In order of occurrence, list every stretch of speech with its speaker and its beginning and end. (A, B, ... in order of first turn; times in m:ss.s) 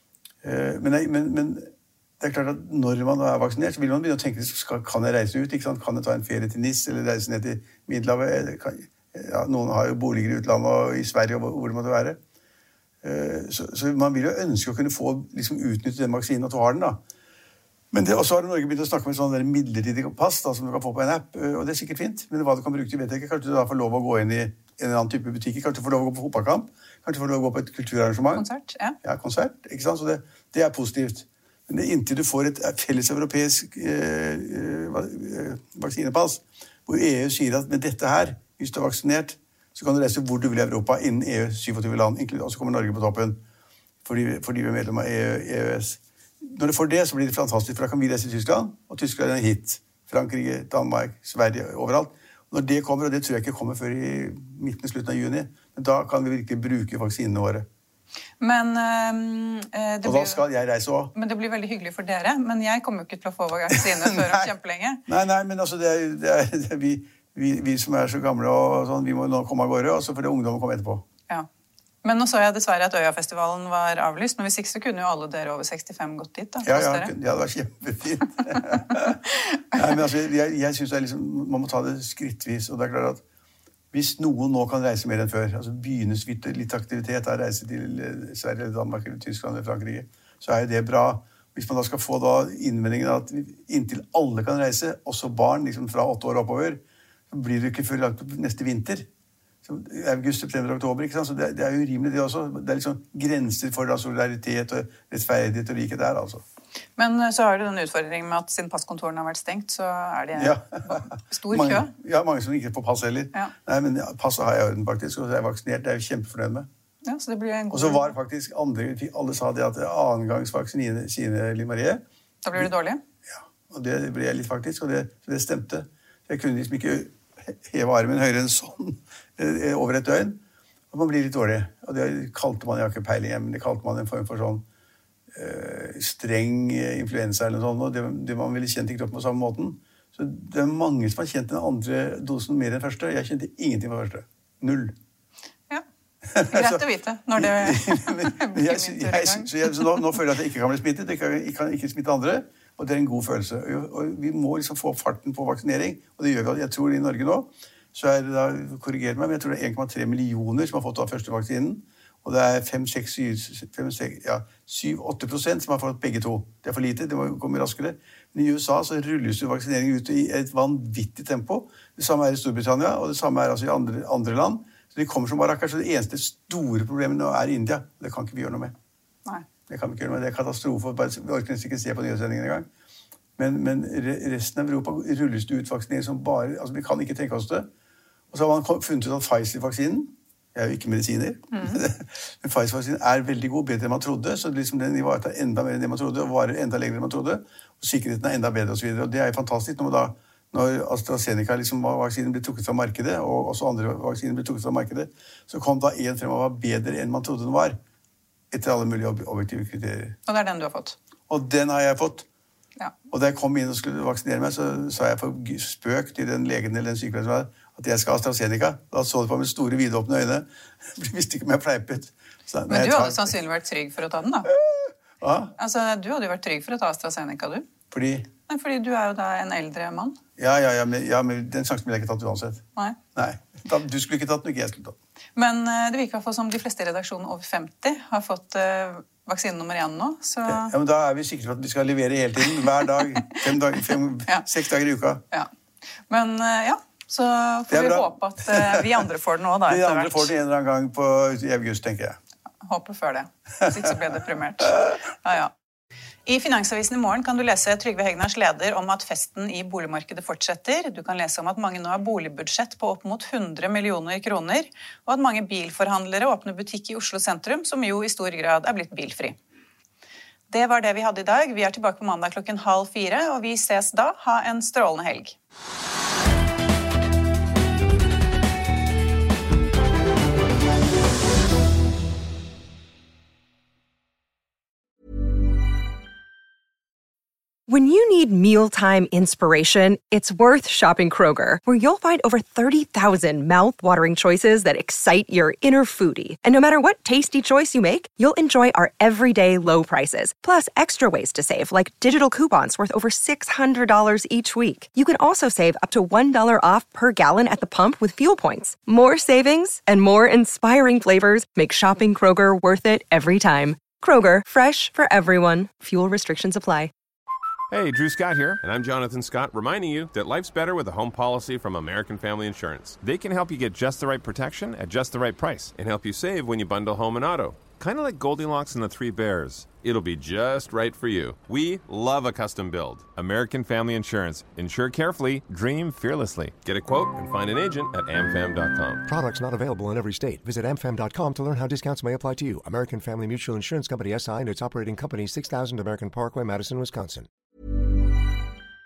0:00.4-0:12.2 A
0:13.0-0:17.0 A
0:17.9-0:28.4 A
0:28.3-0:29.0 B
0:29.0-0:43.4 A
0:44.0-0:57.6 A
0:58.4-1:00.4 B
1:00.0-1:01.1 A
1:01.1-1:05.0 B
1:03.7-1:04.4 A
1:05.1-1:11.0 A
1:12.0-1:17.1 B
1:16.6-1:19.2 A
1:19.4-1:19.8 B
1:19.7-1:23.2 A
1:23.9-1:39.1 A
1:39.6-1:46.4 A
1:47.0-1:51.9 B
1:50.3-1:56.7 A
1:57.0-1:58.1 B
1:57.7-2:02.0 A
2:02.4-2:03.0 B
2:03.3-2:10.4 A
2:10.9-2:14.6 A
2:15.3-2:24.9 A
2:26.3-2:26.8 A
2:26.4-2:30.0 B
2:27.4-2:58.7 A
2:59.7-3:02.7 A
3:03.4-3:07.7 A
3:08.3-3:27.8 A
3:11.5-3:11.8 B
3:28.5-3:30.2 A
3:30.3-3:31.0 B
3:31.3-3:32.2 A
3:33.1-3:43.3 A
3:42.7-3:44.5 B
3:44.5-3:45.5 A
3:45.6-3:47.6 B
3:47.9-3:48.3 A
3:48.5-3:50.2 B
3:50.4-3:55.0 A
3:55.4-4:00.7 B
4:00.4-4:05.2 A
4:06.1-4:10.3 B
4:07.7-4:09.0 A
4:09.7-4:12.2 A
4:12.6-4:15.5 B
4:13.6-4:13.9 A
4:16.2-4:29.4 B
4:30.5-4:35.4 B
4:47.7-5:16.9 C
5:17.7-5:39.0 D
5:39.0-5:47.3 E